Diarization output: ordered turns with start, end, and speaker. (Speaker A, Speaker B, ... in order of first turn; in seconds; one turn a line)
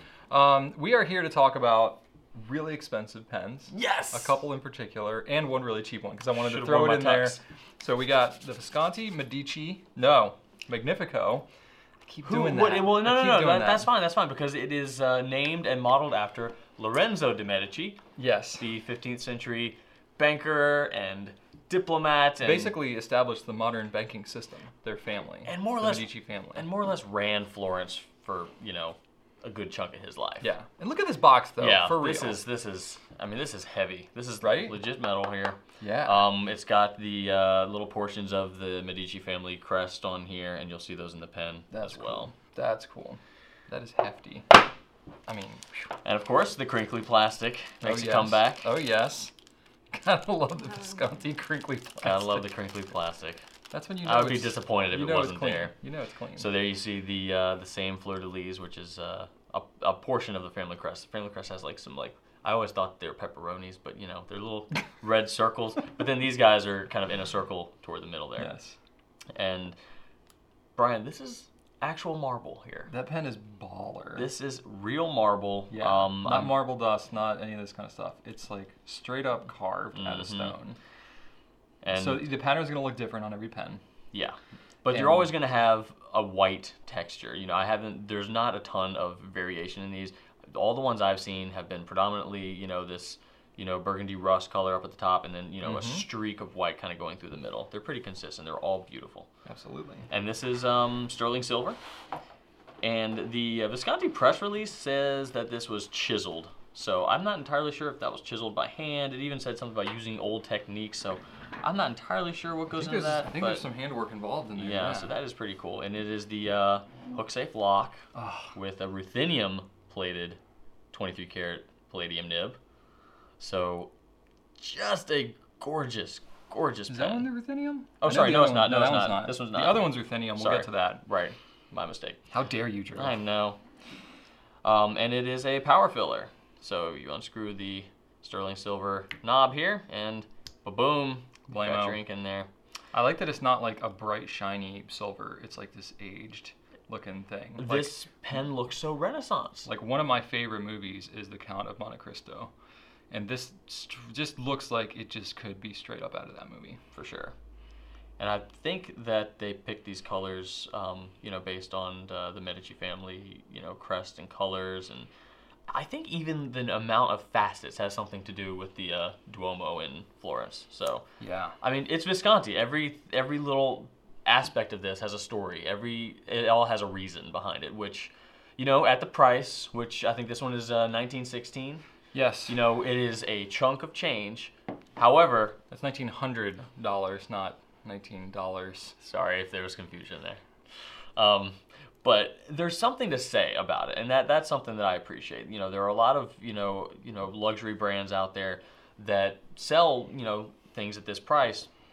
Speaker A: 0.3-11.5
Speaker B: 3.7-4.4
Speaker B: 6.4-7.4
Speaker A: 12.1-13.9
Speaker B: 12.2-18.0
Speaker A: 18.2-18.6
Speaker B: 18.6-22.8
Speaker A: 22.4-26.7
Speaker B: 25.4-30.5
Speaker A: 30.4-32.4
Speaker B: 31.6-42.3
Speaker A: 34.4-34.8
Speaker A: 35.8-36.3
Speaker A: 41.7-44.5
Speaker A: 45.3-45.9
Speaker B: 46.0-48.7
Speaker A: 47.8-49.3
Speaker A: 49.9-52.5
Speaker B: 52.0-53.4
Speaker A: 53.7-56.5
Speaker B: 54.0-55.7
Speaker B: 56.4-68.5
Speaker A: 68.4-68.8
Speaker B: 69.3-69.8
Speaker B: 70.8-72.9
Speaker A: 72.9-74.3
Speaker B: 74.2-76.7
Speaker A: 75.7-80.8
Speaker B: 79.9-80.5
Speaker B: 81.8-82.3
Speaker A: 81.9-83.8
Speaker B: 84.1-99.3
Speaker A: 84.9-85.3
Speaker A: 95.6-96.1
Speaker A: 99.5-100.1
Speaker B: 100.1-101.8
Speaker B: 102.8-113.7
Speaker A: 112.7-115.2
Speaker B: 114.6-120.4
Speaker A: 118.2-118.5
Speaker B: 120.9-122.6
Speaker B: 123.4-123.9
Speaker B: 124.6-127.3
Speaker A: 126.9-131.0
Speaker B: 128.0-132.2
Speaker A: 132.3-133.2
Speaker B: 132.9-133.6
Speaker B: 134.6-142.5
Speaker A: 141.5-142.0
Speaker A: 142.9-148.0
Speaker B: 147.6-149.7
Speaker A: 149.7-152.5
Speaker A: 153.1-156.8
Speaker B: 156.9-157.3
Speaker B: 158.2-165.1
Speaker B: 165.7-171.1
Speaker A: 171.2-171.6
Speaker B: 171.6-181.8
Speaker A: 182.1-182.6
Speaker B: 182.5-185.6
Speaker A: 185.7-189.0
Speaker B: 189.0-190.4
Speaker B: 191.2-201.7